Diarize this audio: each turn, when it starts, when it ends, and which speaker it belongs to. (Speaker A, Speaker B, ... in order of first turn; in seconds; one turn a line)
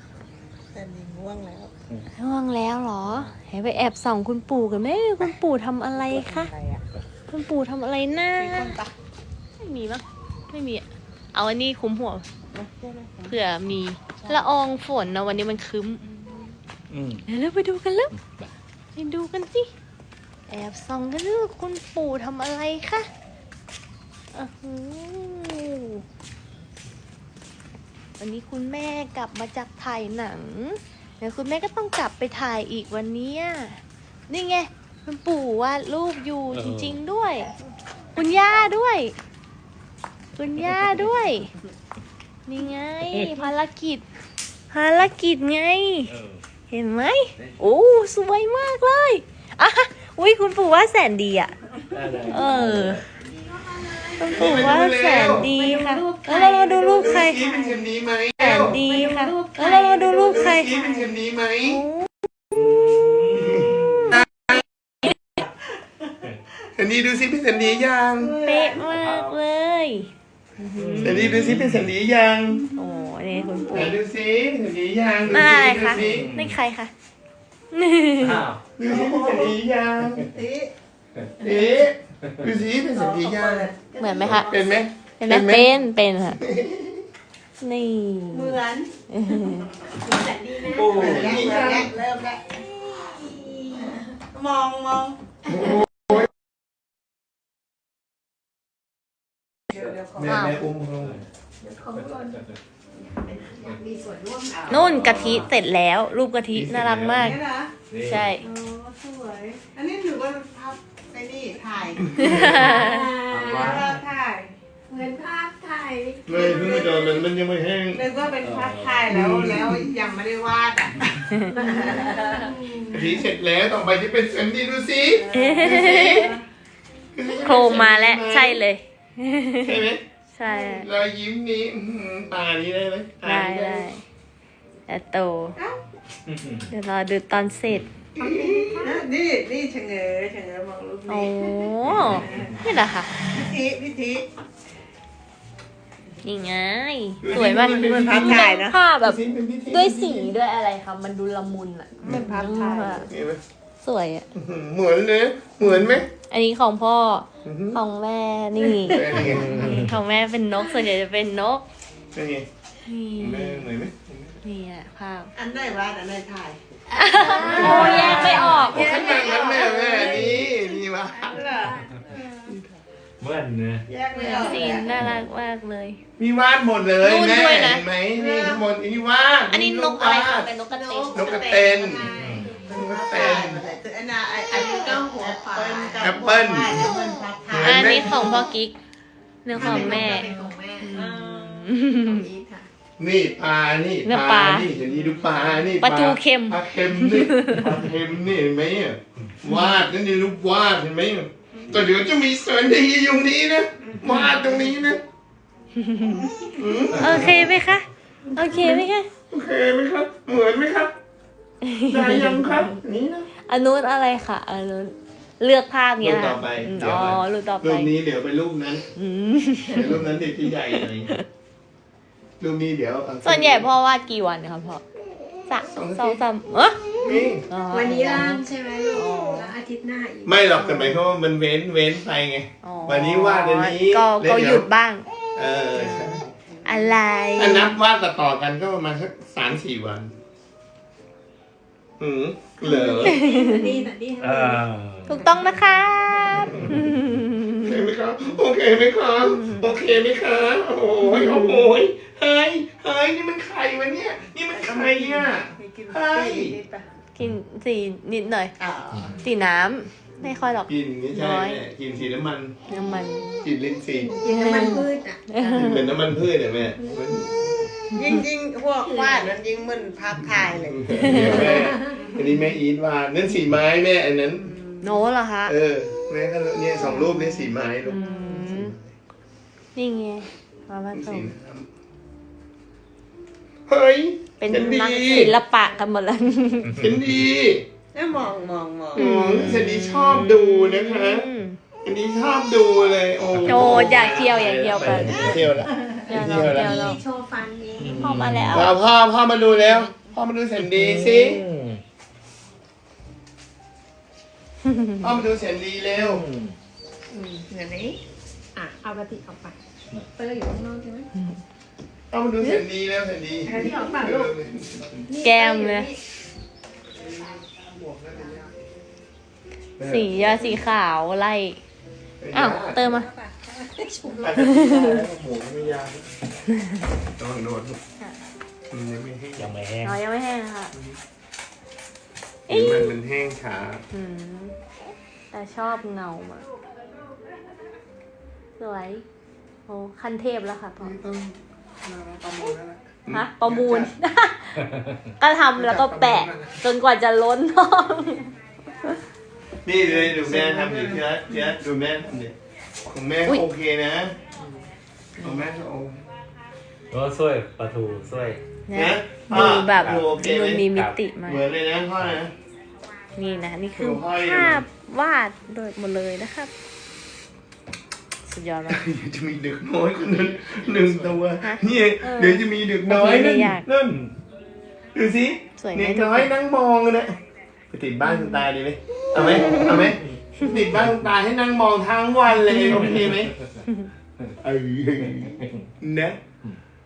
Speaker A: 0.7-1.7
Speaker B: 2.1-6.5
Speaker C: 3.0-3.3
Speaker A: 6.0-6.8
Speaker B: 7.3-8.8
Speaker A: 8.4-8.9
Speaker B: 9.6-12.3
Speaker A: 12.5-13.4
Speaker B: 13.3-16.1
Speaker A: 14.2-14.5
Speaker C: 16.9-17.2
Speaker B: 17.3-18.1
Speaker C: 18.1-18.5
Speaker B: 18.9-19.7
Speaker B: 20.5-23.1
Speaker B: 24.3-26.0
Speaker B: 28.2-37.5
Speaker C: 36.5-37.0
Speaker B: 38.2-39.1
Speaker B: 40.4-41.5
Speaker B: 42.5-44.0
Speaker B: 44.7-46.1
Speaker C: 46.1-46.4
Speaker B: 46.7-51.5
Speaker C: 51.9-53.1
Speaker B: 52.3-53.0
Speaker A: 53.5-57.8
Speaker B: 54.2-57.4
Speaker D: 54.3-55.5
Speaker E: 55.6-57.8
Speaker D: 57.0-58.8
Speaker B: 58.4-60.8
Speaker A: 58.6-61.1
Speaker E: 59.0-60.8
Speaker D: 60.2-61.8
Speaker B: 61.6-62.1
Speaker C: 62.5-64.2
Speaker D: 63.4-64.2
Speaker D: 66.8-68.3
Speaker A: 68.2-68.9
Speaker B: 68.4-71.3
Speaker C: 68.9-69.4
Speaker C: 70.8-71.9
Speaker D: 71.0-72.6
Speaker B: 72.8-74.0
Speaker A: 72.8-73.8
Speaker D: 73.7-76.3
Speaker B: 75.3-76.9
Speaker C: 75.8-76.6
Speaker B: 77.7-78.4
Speaker C: 78.2-78.6
Speaker D: 78.8-80.2
Speaker A: 78.8-79.5
Speaker A: 80.2-80.7
Speaker D: 81.4-83.7
Speaker A: 82.9-84.8
Speaker B: 84.0-84.5
Speaker D: 84.4-85.7
Speaker B: 85.2-86.4
Speaker D: 86.4-87.0
Speaker B: 87.6-89.7
Speaker A: 88.3-88.9
Speaker E: 90.0-91.9
Speaker A: 90.5-95.2
Speaker D: 90.7-91.9
Speaker D: 95.6-96.2
Speaker A: 99.7-100.6
Speaker D: 100.2-101.2
Speaker B: 100.3-100.6
Speaker C: 101.0-101.3
Speaker A: 101.6-102.4
Speaker E: 101.7-102.1
Speaker C: 102.3-102.6
Speaker E: 103.2-104.9
Speaker A: 103.2-103.8
Speaker A: 104.6-105.4
Speaker C: 104.7-105.5
Speaker B: 104.7-107.4
Speaker D: 106.5-107.4
Speaker A: 107.2-107.7
Speaker C: 107.9-108.3
Speaker B: 108.0-108.4
Speaker E: 108.4-109.6
Speaker A: 108.4-117.2
Speaker D: 112.0-112.7
Speaker B: 112.2-113.1
Speaker E: 112.5-113.3
Speaker C: 113.3-114.0
Speaker E: 114.9-116.2
Speaker D: 116.3-118.1
Speaker A: 117.9-123.2
Speaker C: 118.4-119.1
Speaker D: 119.1-119.9
Speaker B: 121.3-121.7
Speaker E: 121.6-122.8
Speaker D: 122.9-126.3
Speaker A: 125.1-126.4
Speaker B: 125.3-126.3
Speaker D: 127.2-128.6
Speaker B: 127.4-130.9
Speaker D: 129.7-133.9
Speaker A: 130.4-130.8
Speaker B: 133.2-134.0
Speaker B: 134.9-135.6
Speaker C: 136.3-136.7
Speaker B: 136.7-137.9
Speaker D: 138.2-138.9
Speaker A: 138.2-142.7
Speaker E: 138.5-139.0
Speaker B: 141.1-143.1
Speaker C: 141.9-142.6
Speaker A: 143.2-144.3
Speaker B: 146.2-149.2
Speaker D: 147.2-150.3
Speaker A: 147.4-148.8
Speaker B: 149.7-153.1
Speaker E: 152.1-152.9
Speaker A: 152.1-153.1
Speaker D: 152.1-153.4
Speaker B: 153.8-154.3
Speaker D: 154.3-156.1
Speaker B: 155.6-161.7
Speaker D: 157.4-157.8
Speaker D: 158.8-159.9
Speaker C: 159.2-159.9
Speaker D: 162.1-162.5
Speaker B: 162.8-163.7
Speaker D: 163.2-164.4
Speaker B: 164.4-165.3
Speaker A: 165.4-170.6
Speaker B: 166.9-169.6
Speaker D: 167.2-171.5
Speaker C: 167.4-168.3
Speaker E: 167.6-168.0
Speaker E: 168.8-170.3
Speaker A: 171.2-172.8
Speaker C: 173.2-173.9
Speaker A: 173.9-175.0
Speaker B: 174.1-176.0
Speaker E: 174.2-174.8
Speaker C: 175.0-175.2
Speaker D: 176.2-180.5
Speaker B: 177.0-177.9
Speaker A: 178.1-178.6
Speaker B: 179.5-181.7
Speaker A: 180.7-188.4
Speaker D: 181.1-182.1
Speaker E: 181.5-182.7
Speaker C: 182.2-182.5
Speaker D: 182.7-183.6
Speaker E: 184.5-186.2
Speaker D: 186.0-186.9
Speaker B: 186.8-188.8
Speaker D: 187.5-188.5
Speaker B: 189.4-190.3
Speaker D: 189.5-190.2
Speaker A: 189.5-192.7
Speaker E: 190.2-191.4
Speaker B: 190.8-192.3
Speaker D: 193.0-205.0
Speaker B: 194.1-194.7
Speaker B: 195.8-197.7
Speaker B: 205.8-206.3
Speaker D: 206.6-207.5
Speaker B: 206.9-209.1
Speaker C: 207.1-207.5
Speaker D: 208.4-210.9
Speaker B: 211.6-212.8
Speaker D: 211.9-213.3
Speaker B: 213.5-217.9
Speaker D: 216.0-218.9
Speaker B: 219.0-221.2
Speaker D: 219.7-221.1
Speaker D: 222.4-223.7
Speaker B: 223.2-224.8
Speaker B: 225.5-226.8
Speaker D: 225.7-226.2
Speaker D: 227.0-227.5
Speaker E: 227.0-230.5
Speaker B: 227.5-229.5
Speaker A: 227.7-229.3
Speaker D: 230.3-234.7
Speaker B: 232.6-235.1
Speaker D: 235.4-236.2
Speaker A: 235.7-236.2
Speaker B: 236.6-237.8
Speaker D: 237.4-240.2
Speaker D: 242.0-243.2
Speaker B: 242.7-243.9
Speaker E: 242.9-244.6
Speaker A: 243.2-244.6
Speaker C: 244.2-245.3
Speaker B: 245.1-247.8
Speaker E: 245.2-245.6
Speaker A: 245.5-246.5
Speaker D: 246.3-246.8
Speaker C: 246.6-246.9
Speaker D: 247.6-256.6
Speaker B: 249.3-249.7
Speaker B: 251.0-251.7
Speaker A: 254.5-256.8
Speaker B: 257.2-258.6
Speaker A: 258.6-259.2
Speaker B: 259.2-261.6
Speaker D: 260.7-262.6
Speaker B: 262.7-263.3
Speaker A: 262.8-263.4
Speaker D: 263.4-264.2
Speaker A: 264.0-265.9
Speaker E: 264.2-265.6
Speaker B: 264.3-265.9
Speaker D: 265.6-267.3
Speaker A: 267.8-271.8
Speaker B: 267.9-268.2
Speaker E: 268.8-269.4
Speaker D: 270.7-274.5
Speaker B: 271.0-271.6
Speaker E: 271.5-272.1
Speaker B: 274.8-275.6
Speaker D: 275.5-278.9
Speaker B: 276.8-277.2
Speaker B: 277.9-278.7
Speaker B: 279.8-281.3
Speaker D: 280.9-281.7
Speaker D: 283.7-285.4
Speaker B: 284.4-286.8
Speaker D: 286.8-287.6
Speaker A: 287.9-289.1
Speaker D: 288.9-291.3
Speaker B: 289.0-291.6
Speaker D: 291.8-297.0
Speaker B: 293.4-295.4
Speaker C: 294.8-295.5
Speaker B: 296.0-297.0
Speaker A: 296.3-297.0
Speaker E: 296.8-298.0
Speaker A: 297.7-298.1
Speaker C: 297.8-298.7
Speaker B: 297.8-298.7
Speaker D: 298.5-301.4
Speaker C: 300.6-301.8
Speaker B: 304.6-305.1
Speaker D: 305.0-306.2
Speaker C: 306.0-306.6
Speaker E: 307.1-308.0
Speaker A: 307.5-307.9
Speaker E: 308.6-309.6
Speaker E: 310.2-311.1
Speaker A: 310.2-311.1
Speaker D: 312.1-315.1
Speaker E: 313.5-314.3
Speaker A: 313.5-314.3
Speaker A: 315.1-315.9
Speaker E: 315.1-315.9
Speaker B: 315.2-315.9
Speaker A: 317.3-317.6
Speaker D: 317.7-318.5
Speaker A: 318.1-318.4
Speaker D: 319.8-320.7
Speaker B: 319.8-321.6
Speaker D: 322.2-323.1
Speaker B: 322.3-323.1
Speaker A: 322.8-324.3
Speaker E: 324.0-324.3
Speaker D: 324.2-326.1
Speaker B: 324.4-325.0
Speaker D: 327.2-327.8
Speaker D: 328.7-329.5
Speaker C: 329.4-330.0
Speaker B: 329.8-330.7
Speaker D: 332.5-333.9
Speaker B: 332.5-333.0
Speaker B: 333.9-334.6
Speaker B: 335.3-336.5
Speaker B: 338.6-339.0
Speaker B: 339.7-341.0
Speaker D: 341.0-341.4
Speaker D: 341.9-343.9
Speaker B: 343.1-344.6
Speaker C: 344.8-345.0
Speaker B: 345.2-348.3
Speaker D: 345.6-346.3
Speaker D: 349.6-352.4
Speaker D: 352.9-354.2
Speaker B: 355.2-355.4
Speaker D: 355.2-356.0
Speaker C: 356.9-358.4
Speaker B: 358.7-361.5
Speaker D: 358.7-360.7
Speaker C: 359.3-361.0
Speaker D: 361.2-362.3
Speaker B: 363.2-366.5
Speaker D: 363.8-364.7
Speaker B: 368.3-368.9
Speaker D: 368.7-374.0
Speaker C: 370.4-371.1
Speaker B: 371.4-373.7
Speaker D: 374.9-377.1
Speaker B: 375.6-376.3
Speaker D: 377.7-383.3
Speaker B: 378.1-378.4
Speaker B: 379.2-379.8
Speaker C: 382.6-383.4
Speaker D: 384.4-386.2